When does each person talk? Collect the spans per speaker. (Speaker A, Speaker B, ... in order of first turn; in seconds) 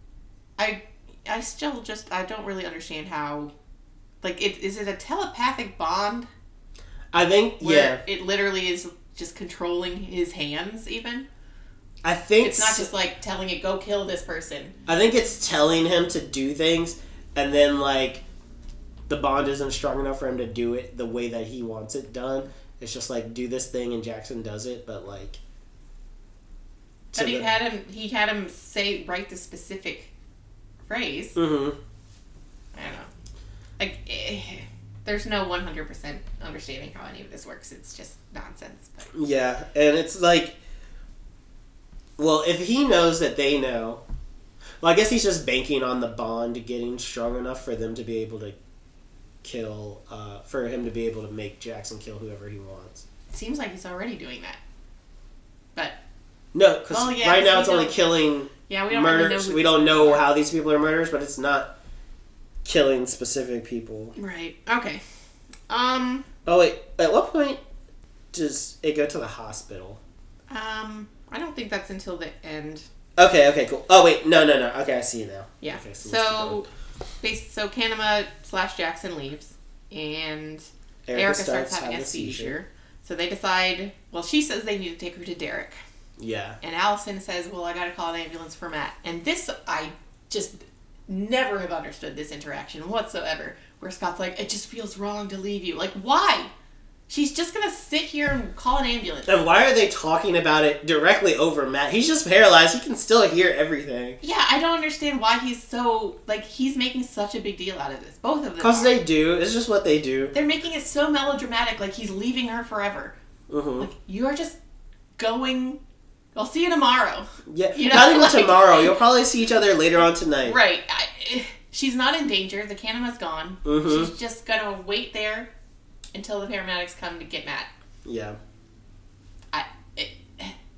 Speaker A: 0.6-3.5, 4.2-6.3, 7.6-11.3, 12.4-14.8, 27.1-30.1, 30.9-31.4, 32.7-33.1, 33.8-39.1, 53.3-54.6, 56.9-58.0, 58.7-60.3, 64.2-65.0, 65.7-66.2, 70.5-72.8, 75.6-76.7, 77.2-85.8, 86.6-96.5, 97.1-99.4, 104.2-109.0, 110.3-113.1, 113.8-114.6, 115.2-115.8, 116.3-118.9, 120.4-125.5, 126.1-127.7, 129.5-130.6
Speaker B: 7.1-8.0, 12.0-12.9, 14.9-18.2, 19.1-25.4, 27.1-27.5, 31.4-31.8, 39.1-40.6, 42.2-44.0, 44.8-48.6, 49.4-53.0, 56.5-61.7, 62.6-64.2, 66.5-67.6, 68.3-70.0, 73.2-76.6, 81.1-82.6, 86.2-86.6, 99.3-104.2, 108.6-110.3, 113.5-113.9, 117.5-120.6, 123.7-124.1, 128.1-128.4